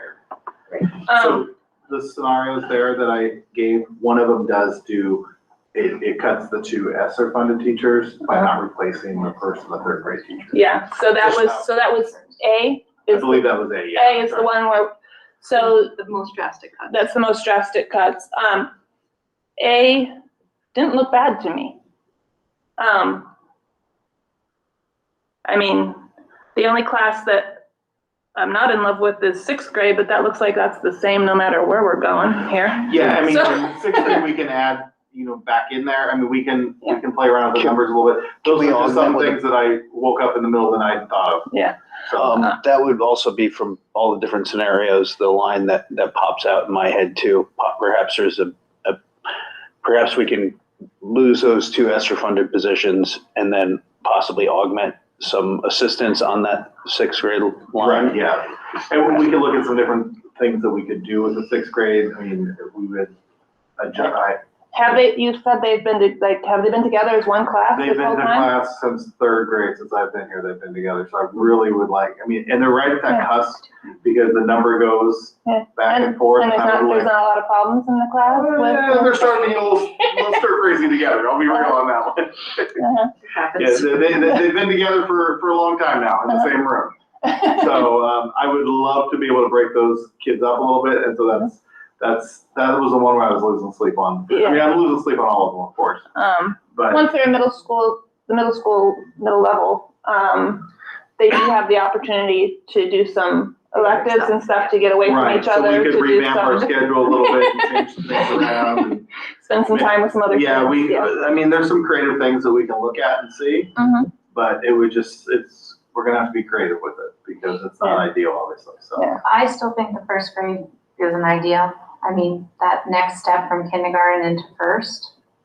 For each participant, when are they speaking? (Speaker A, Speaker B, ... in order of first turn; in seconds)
Speaker A: 1.0-1.5, 10.5-15.9, 16.9-18.7, 19.6-20.1, 20.7-21.8, 22.8-23.3, 25.4-26.0, 26.5-27.6, 28.4-34.2, 41.5-41.8, 64.7-68.5, 75.4-79.5, 82.8-83.1, 94.3-94.7, 96.2-107.7, 109.4-111.1, 113.8-114.1
Speaker B: 1.1-10.7, 11.2-11.6, 13.1-14.5, 32.9-41.5, 42.1-42.4, 57.8-63.1, 63.8-64.4, 67.7-77.1, 78.2-82.8, 83.5-96.0, 96.7-97.0, 105.0-109.1, 109.7-113.7, 114.3-119.2
Speaker C: 15.6-17.0, 83.3-83.9, 103.7-104.7
Speaker D: 38.4-39.4, 42.1-49.0, 49.8-58.2
Speaker E: 119.2-125.1